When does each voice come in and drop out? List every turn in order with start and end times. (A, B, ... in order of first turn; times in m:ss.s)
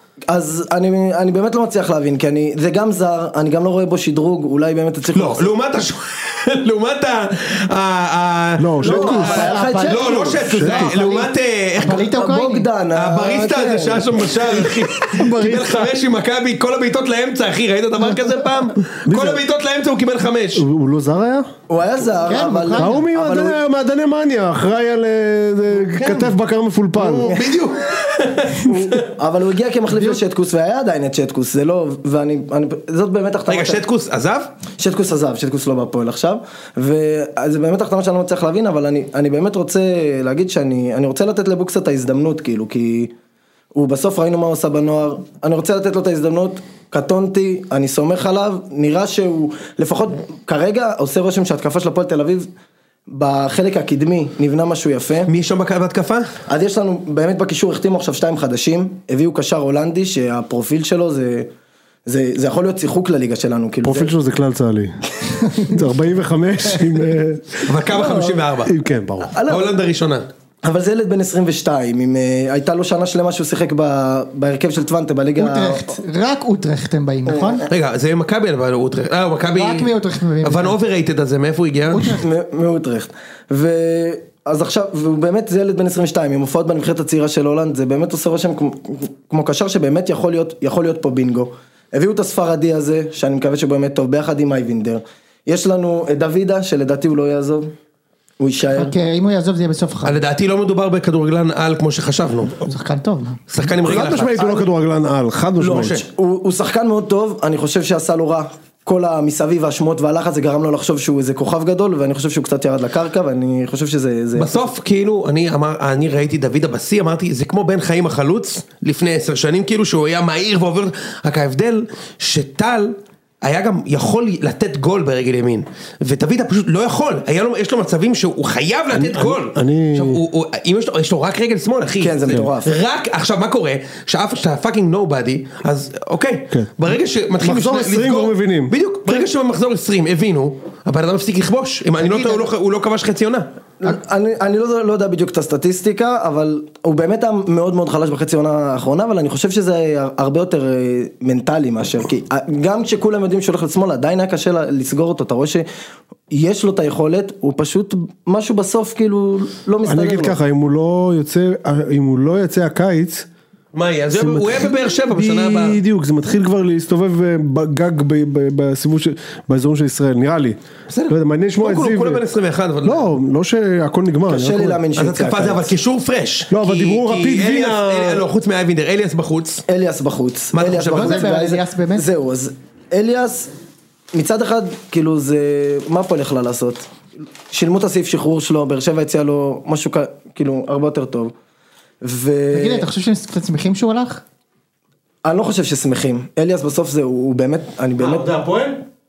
0:00.3-0:05.5 A
0:05.1-0:12.0 B
0:08.6-0:09.5 C
0:08.8-0:10.6 A
0:08.8-0:12.7 D
0:10.4-0:10.9 C
0:12.0-0:14.7 A
0:12.9-0:20.6 B
0:15.1-0:15.9 C
0:19.0-0:19.4 C
0:20.5-0:21.5 C
0:21.7-0:23.6 A
0:22.3-0:23.0 D
0:22.7-0:27.3 C
0:25.8-0:26.3 B
0:26.9-0:29.0 B
0:27.2-0:27.6 A
0:28.6-0:33.8 A
0:29.9-0:30.2 D
0:33.5-0:34.5 B
0:34.8-0:43.1 A
0:43.7-0:52.5 A
0:53.1-0:55.3 A
0:55.3-0:56.3 B
0:56.5-1:01.5 A
1:02.0-1:04.1 A
1:03.8-1:07.7 C
1:05.4-1:05.7 D
1:07.6-1:08.7 B
1:07.8-1:08.4 A
1:08.6-1:09.3 C
1:09.3-1:09.8 A
1:09.4-1:10.2 B
1:10.6-1:15.9 A
1:15.4-1:17.7 D
1:17.3-1:17.7 A
1:17.7-1:19.9 B
1:19.4-1:20.8 D
1:20.4-1:22.2 B
1:21.9-1:22.2 D
1:22.1-1:37.7 A
1:38.4-1:38.9 A
1:38.7-1:40.2 D
1:40.0-1:42.6 B
1:42.6-1:43.5 D
1:43.5-1:44.5 B
1:43.8-1:46.0 C
1:44.1-1:44.7 A
1:45.6-1:46.0 B
1:45.6-1:54.7 A
1:54.4-2:23.5 B
2:08.9-2:10.2 C
2:12.0-2:12.7 A
2:16.5-2:16.8 C
2:17.4-2:18.7 C
2:22.0-2:22.5 D
2:23.8-2:35.7 A
2:36.3-2:40.4 A
2:39.8-2:43.3 C
2:43.7-2:45.8 B
2:44.1-2:52.2 C
2:50.9-2:53.1 B
2:52.8-2:54.8 C
2:54.3-2:55.7 A
2:54.9-2:59.6 B
2:56.5-2:58.2 C
2:59.7-3:03.5 A
3:00.5-3:01.3 B
3:00.9-3:02.1 D
3:04.1-3:06.8 A
3:07.5-3:11.3 A
3:12.0-3:12.9 A
3:12.5-3:14.2 D
3:15.2-3:18.3 A
3:18.1-3:18.6 C